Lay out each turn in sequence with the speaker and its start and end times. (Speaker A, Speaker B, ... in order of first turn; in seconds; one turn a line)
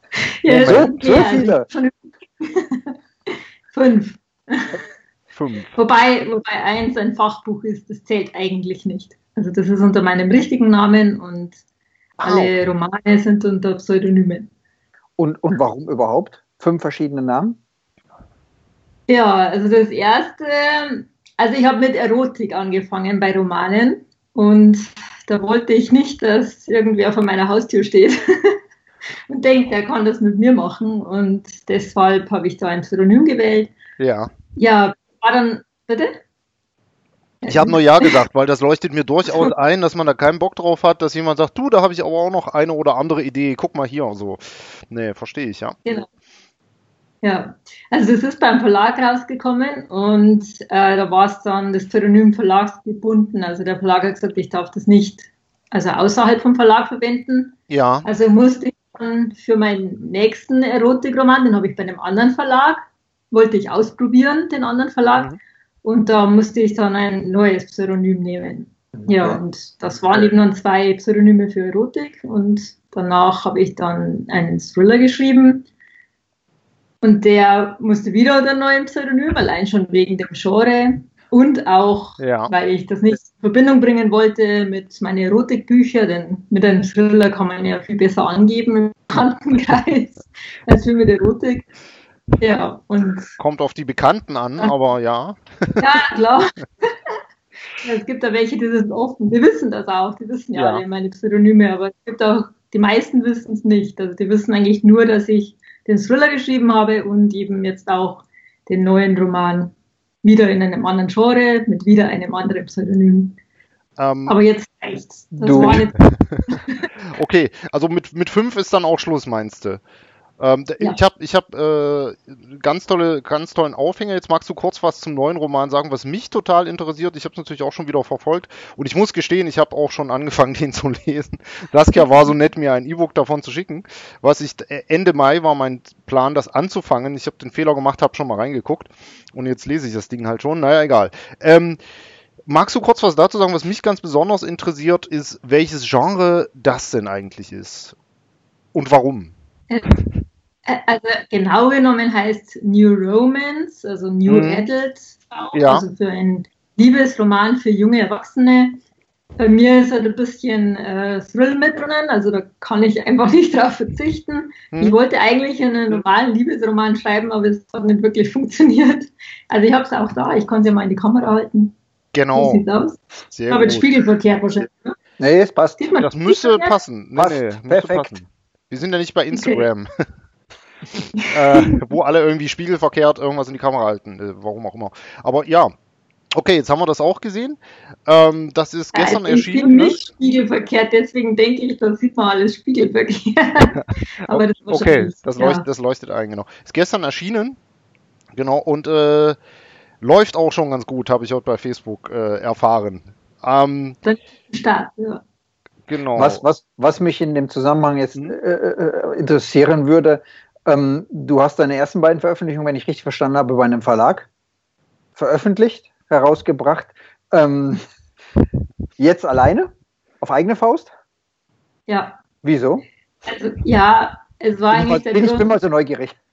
Speaker A: 0.4-4.8
Speaker B: 0.5-1.7
Speaker C: 5.3-5.7
Speaker A: 5.8-11.6
Speaker A: 12.2-14.5
Speaker C: 12.2-12.6
Speaker B: 15.2-17.6
Speaker A: 19.1-28.6
Speaker A: 29.3-33.7
Speaker C: 34.0-34.3
Speaker A: 34.6-36.2
Speaker A: 37.4-38.1
Speaker C: 37.5-45.8
Speaker A: 47.2-65.3
Speaker C: 57.7-58.1
Speaker A: 65.8-75.7
Speaker B: 69.0-69.4
Speaker A: 77.0-91.7
Speaker C: 82.2-82.5
Speaker A: 92.4-93.3
Speaker C: 93.4-95.9
Speaker A: 95.8-96.9
Speaker A: 97.8-113.4
Speaker C: 100.5-100.8
Speaker C: 114.0-114.4
Speaker A: 114.3-116.0
Speaker B: 115.3-115.8
Speaker C: 115.6-116.6
Speaker A: 116.5-116.9
Speaker C: 117.1-119.8
Speaker C: 120.4-141.8
Speaker C: 142.5-147.9
Speaker C: 148.7-149.3
Speaker A: 150.7-158.8
Speaker C: 154.3-154.7
Speaker C: 155.5-155.8
Speaker A: 159.4-171.8
Speaker C: 172.1-172.6
Speaker A: 172.3-175.0
Speaker C: 173.3-173.9
Speaker B: 175.2-175.8
Speaker A: 175.8-176.7
Speaker C: 176.0-179.9
Speaker B: 177.2-178.1
Speaker A: 179.3-179.7
Speaker C: 181.3-185.7
Speaker A: 181.5-181.8
Speaker C: 186.3-190.0
Speaker A: 188.9-195.7
Speaker C: 193.8-197.6
Speaker C: 198.4-199.4
Speaker C: 200.0-204.0
Speaker A: 204.0-205.2
Speaker C: 205.9-206.4
Speaker B: 206.2-214.3
Speaker B: 215.2-217.8
Speaker B: 219.0-220.9
Speaker A: 221.9-222.2
Speaker B: 222.4-222.8
Speaker A: 223.3-225.5
Speaker B: 224.7-226.2